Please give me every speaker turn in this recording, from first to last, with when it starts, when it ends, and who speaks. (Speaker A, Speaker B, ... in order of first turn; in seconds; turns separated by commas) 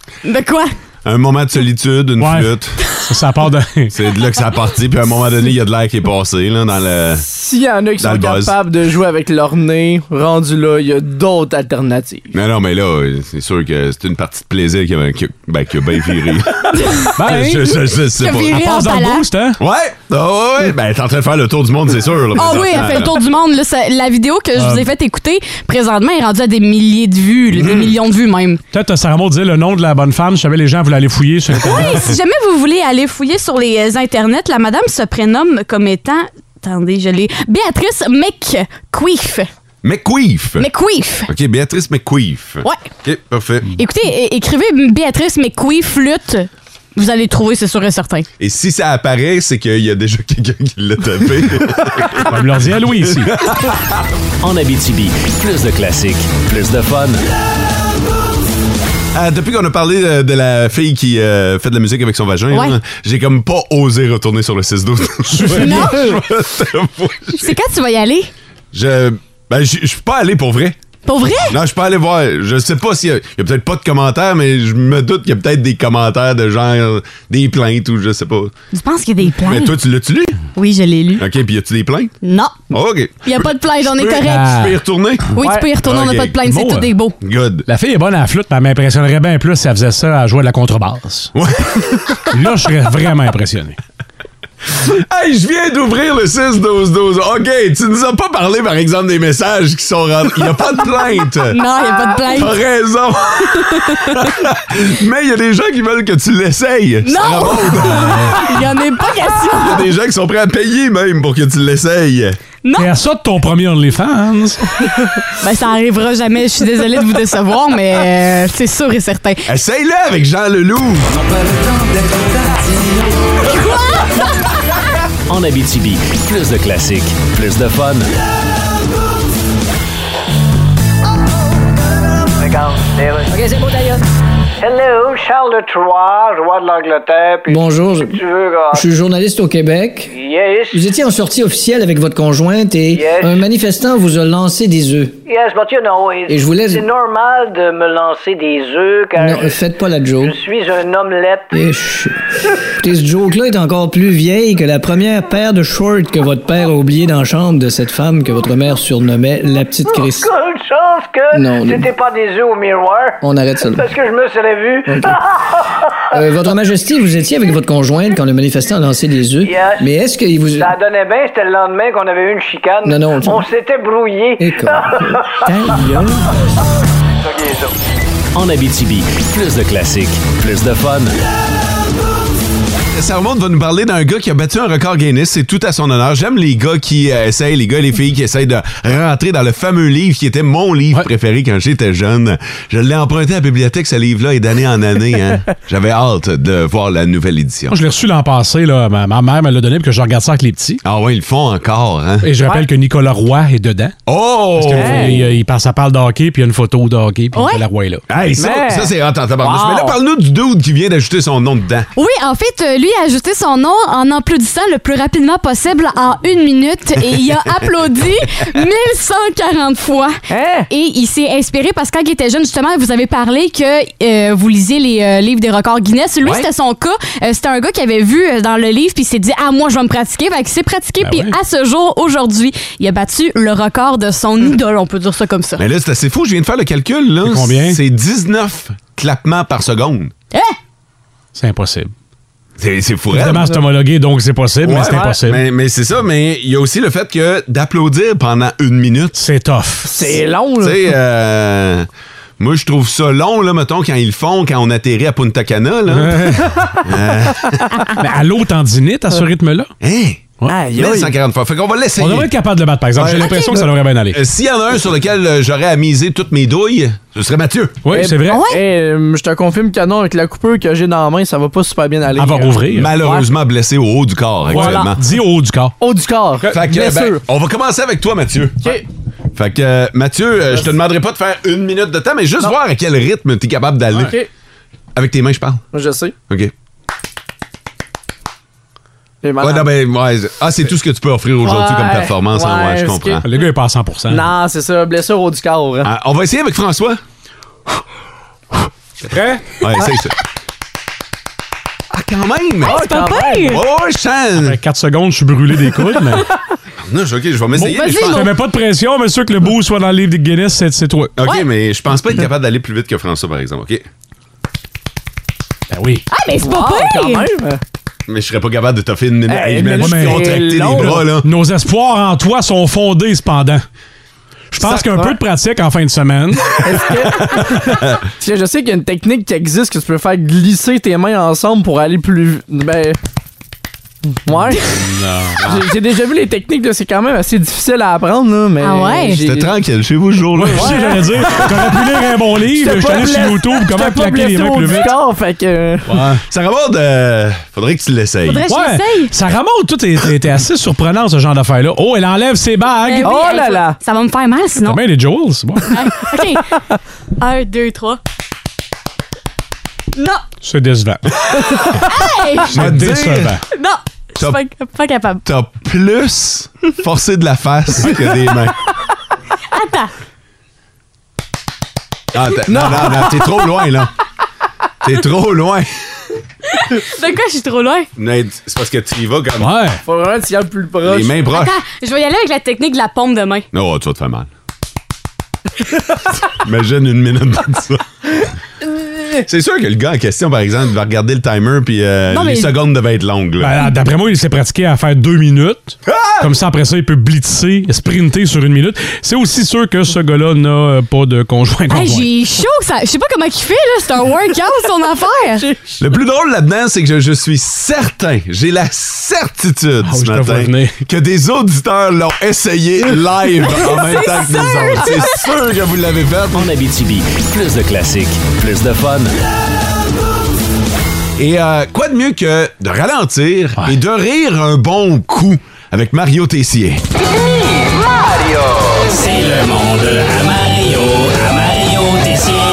Speaker A: 0.2-0.8, Speaker B: 1.0-2.8, Speaker C: 2.2-4.0, Speaker B: 3.9-7.3, Speaker D: 7.2-12.3, Speaker B: 8.0-8.6, Speaker B: 12.3-18.7, Speaker A: 16.8-19.3, Speaker C: 17.2-17.7, Speaker C: 18.5-19.6, Speaker B: 19.6-23.2, Speaker A: 22.4-28.6, Speaker C: 24.6-24.9, Speaker B: 27.6-27.9, Speaker C: 28.7-32.1, Speaker A: 31.6-39.5, Speaker B: 39.8-40.7, Speaker A: 40.6-41.3, Speaker B: 41.3-43.7, Speaker A: 43.8-48.3, Speaker B: 48.4-54.0, Speaker C: 52.2-53.3, Speaker E: 54.4-57.2, Speaker B: 59.1-67.6, Speaker A: 65.5-66.2, Speaker A: 67.3-68.3, Speaker B: 68.7-70.8, Speaker A: 71.1-71.6, Speaker B: 71.5-78.5, Speaker A: 78.7-79.7, Speaker B: 79.4-80.4, Speaker A: 80.5-81.2, Speaker B: 81.2-82.1, Speaker A: 82.2-82.6, Speaker B: 82.7-86.4, Speaker A: 83.2-84.7, Speaker C: 84.3-84.8, Speaker A: 85.4-87.2, Speaker C: 86.5-86.9, Speaker B: 87.2-87.7, Speaker C: 87.7-91.3, Speaker B: 91.3-92.2, Speaker C: 92.3-93.8, Speaker B: 94.8-108.4, Speaker A: 101.5-102.5, Speaker A: 103.6-104.3, Speaker A: 107.0-109.9, Speaker B: 109.5-112.4, Speaker A: 112.6-112.9, Speaker C: 112.8-114.6, Speaker A: 115.4-119.5, Speaker B: 119.5-121.1, Speaker A: 123.5-124.2, Speaker E: 125.3-128.1, Speaker F: 132.4-133.4, Speaker G: 133.3-134.0, Speaker F: 134.6-138.8, Speaker G: 137.5-138.2, Speaker G: 138.7-140.1, Speaker F: 140.1-140.8, Speaker G: 140.7-145.2, Speaker F: 142.9-143.4, Speaker F: 145.3-149.6, Speaker G: 146.3-146.8, Speaker G: 149.2-150.4, Speaker F: 150.2-151.5, Speaker G: 151.5-152.2, Speaker G: 152.8-160.3, Speaker F: 159.9-165.2, Speaker G: 161.3-161.9, Speaker G: 163.2-163.9, Speaker G: 164.9-165.2, Speaker G: 166.1-170.7, Speaker F: 169.4-169.9, Speaker F: 170.6-175.7, Speaker G: 172.8-173.5, Speaker G: 174.4-176.1, Speaker F: 177.3-177.7, Speaker E: 178.3-181.1, Speaker B: 182.9-197.8, Speaker C: 197.7-200.8, Speaker B: 200.8-202.3, Speaker C: 202.2-203.9, Speaker D: 202.4-202.7, Speaker B: 204.1-205.3, Speaker C: 204.6-208.0, Speaker D: 204.8-205.2, Speaker A: 207.3-207.6, Speaker B: 208.1-211.9, Speaker D: 208.4-210.0, Speaker A: 212.0-220.2, Speaker D: 220.3-220.7, Speaker A: 220.7-235.6, Speaker C: 231.0-231.3, Speaker B: 235.6-240.1, Speaker C: 237.2-237.8, Speaker C: 241.3-241.9, Speaker B: 242.6-243.6, Speaker C: 243.1-245.4, Speaker B: 244.6-249.2, Speaker C: 249.2-249.9, Speaker D: 249.8-250.9, Speaker B: 250.6-251.9, Speaker B: 252.4-257.6, Speaker C: 255.9-256.8, Speaker C: 258.0-259.7, Speaker B: 259.8-262.3, Speaker D: 260.5-261.1, Speaker C: 262.0-264.2, Speaker A: 263.2-263.6, Speaker B: 264.1-267.9, Speaker C: 267.9-268.5, Speaker D: 267.9-273.3, Speaker A: 268.3-268.6, Speaker C: 272.2-272.9, Speaker B: 272.7-275.0, Speaker C: 274.5-275.7, Speaker D: 274.5-274.9, Speaker D: 275.8-277.2, Speaker B: 276.5-278.8, Speaker B: 279.4-284.2, Speaker D: 284.0-284.3, Speaker B: 285.0-285.6, Speaker D: 285.7-286.1, Speaker D: 289.2-289.8, Speaker B: 289.4-293.2, Speaker D: 291.4-293.4, Speaker C: 293.2-294.3, Speaker D: 294.1-295.9, Speaker B: 295.8-297.0, Speaker C: 299.1-299.6, Speaker B: 299.6-300.1, Speaker B: 301.9-302.9, Speaker A: 302.6-303.6, Speaker D: 302.6-303.6, Speaker B: 303.4-304.6, Speaker C: 304.4-306.3, Speaker B: 306.8-308.3, Speaker A: 307.6-308.3, Speaker C: 307.9-311.1, Speaker B: 311.2-313.9, Speaker C: 315.7-316.0, Speaker A: 316.1-317.3, Speaker D: 316.4-317.6, Speaker B: 318.1-321.3, Speaker D: 319.3-321.1, Speaker C: 319.8-323.6, Speaker B: 324.5-325.1, Speaker C: 324.5-326.7, Speaker D: 326.6-333.0, Speaker B: 327.3-327.7, Speaker D: 334.3-334.9, Speaker C: 334.8-335.4, Speaker D: 335.4-339.5, Speaker A: 338.6-339.2, Speaker B: 339.2-340.9, Speaker C: 340.4-345.0, Speaker D: 340.5-346.0, Speaker C: 345.9-346.2, Speaker B: 346.3-348.4, Speaker A: 348.2-349.1, Speaker C: 348.5-353.2, Speaker A: 352.9-354.8, Speaker D: 353.0-353.8, Speaker C: 354.6-355.8, Speaker A: 355.7-356.5, Speaker A: 357.2-358.0, Speaker A: 359.9-360.2, Speaker C: 360.4-361.0, Speaker A: 361.7-362.5, Speaker C: 362.5-363.4, Speaker B: 362.5-363.4, Speaker A: 363.5-365.2, Speaker B: 365.2-368.6, Speaker A: 369.5-369.9, Speaker B: 372.1-373.9, Speaker D: 372.5-373.2, Speaker B: 374.8-375.7, Speaker A: 376.5-377.9, Speaker B: 378.0-379.6, Speaker C: 379.4-379.8, Speaker D: 379.9-381.3, Speaker B: 380.8-381.6, Speaker A: 381.3-383.5, Speaker B: 383.5-384.3, Speaker B: 386.3-388.1, Speaker B: 389.2-393.6, Speaker A: 392.1-392.5, Speaker C: 393.4-402.1, Speaker B: 395.9-396.3, Speaker A: 401.7-405.5, Speaker B: 405.8-416.5, Speaker C: 409.9-410.8, Speaker A: 413.6-415.2, Speaker E: 416.3-419.1, Speaker B: 421.2-426.8, Speaker E: 429.0-432.3